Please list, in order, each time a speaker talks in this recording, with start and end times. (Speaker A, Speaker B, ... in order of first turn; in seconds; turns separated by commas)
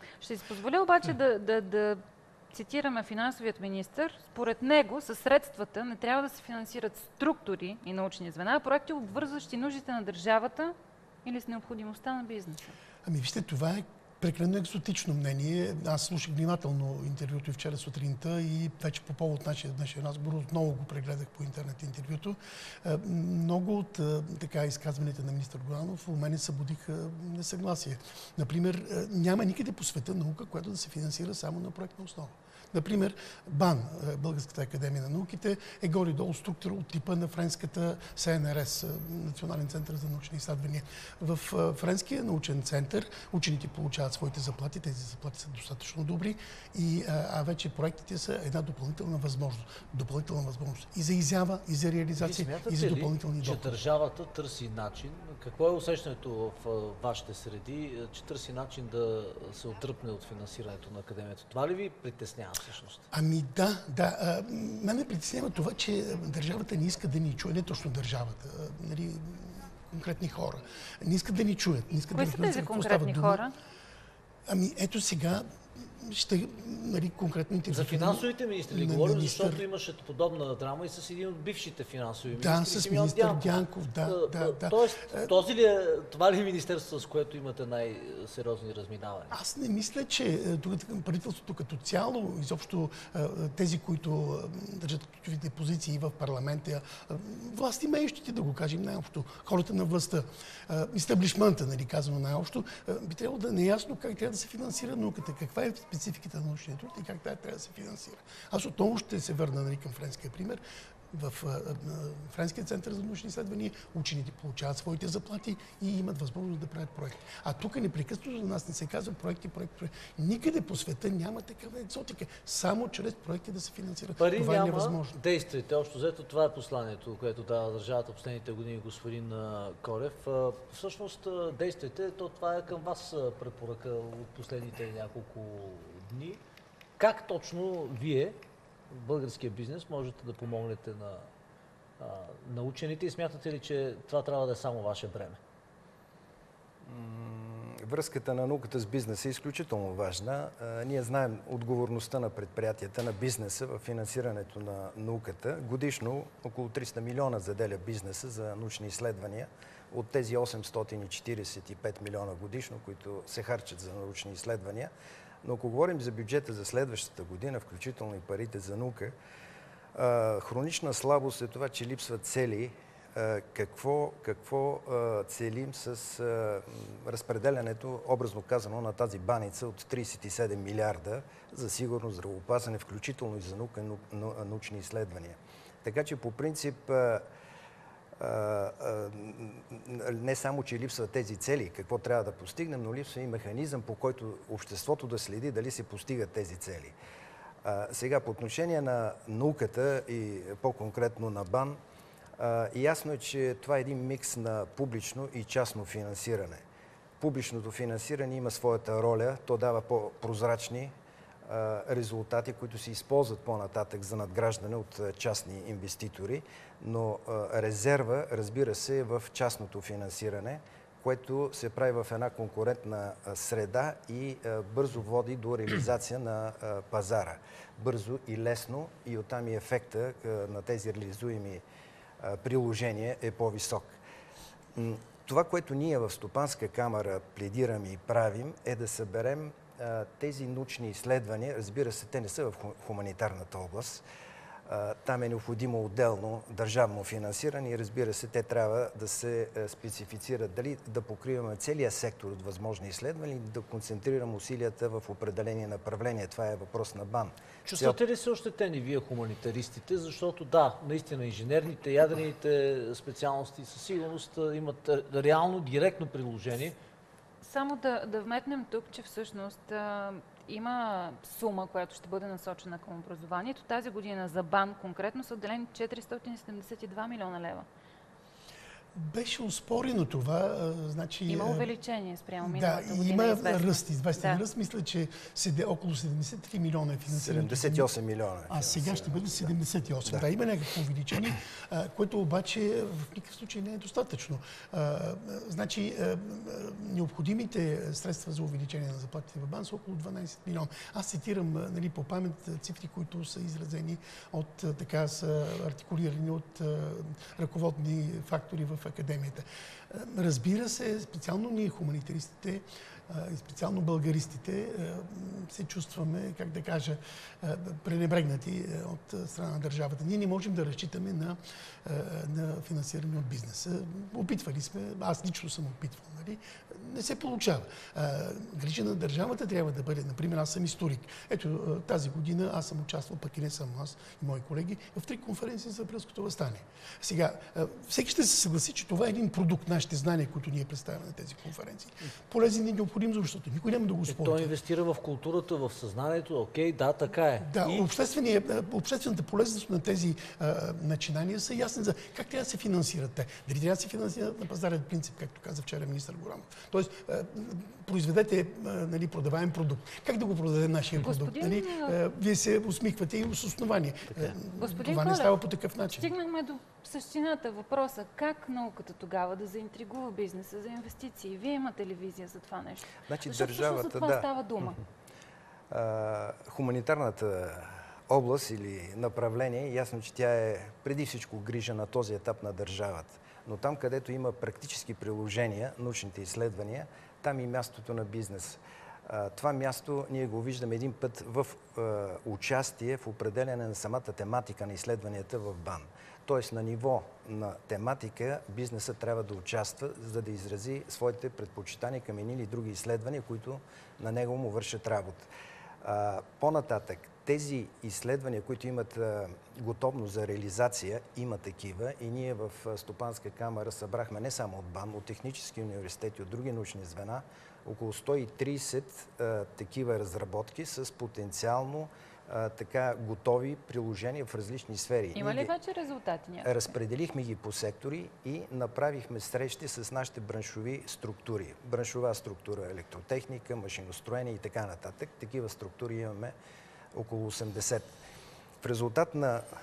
Speaker A: 0.2-12.8, Speaker B: 13.1-53.8, Speaker C: 52.2-63.1, Speaker B: 63.1-73.5, Speaker A: 72.1-73.5, Speaker B: 74.5-79.7, Speaker C: 77.7-89.4, Speaker B: 82.3-85.3, Speaker B: 89.3-110.6, Speaker B: 111.1-125.2, Speaker C: 124.2-136.4, Speaker C: 137.0-141.3, Speaker C: 142.0-145.4, Speaker D: 146.8-164.9, Speaker D: 165.4-169.1, Speaker D: 169.9-187.2, Speaker D: 188.2-196.9, Speaker D: 197.6-201.8, Speaker D: 202.4-206.6, Speaker D: 207.2-210.9, Speaker D: 211.5-231.6, Speaker D: 232.2-234.0, Speaker D: 234.8-244.0, Speaker D: 244.7-258.0, Speaker C: 257.6-266.8, Speaker A: 267.4-277.7, Speaker B: 278.9-281.7, Speaker A: 281.3-284.4, Speaker B: 282.4-287.9, Speaker D: 287.1-290.3, Speaker B: 288.5-344.6, Speaker C: 344.1-347.9, Speaker B: 347.4-366.1, Speaker A: 361.0-362.0, Speaker A: 364.6-374.8, Speaker D: 373.1-374.3, Speaker D: 375.7-405.3, Speaker D: 405.8-425.5, Speaker A: 425.1-426.7, Speaker D: 426.4-436.4, Speaker D: 436.9-437.9, Speaker D: 438.6-439.4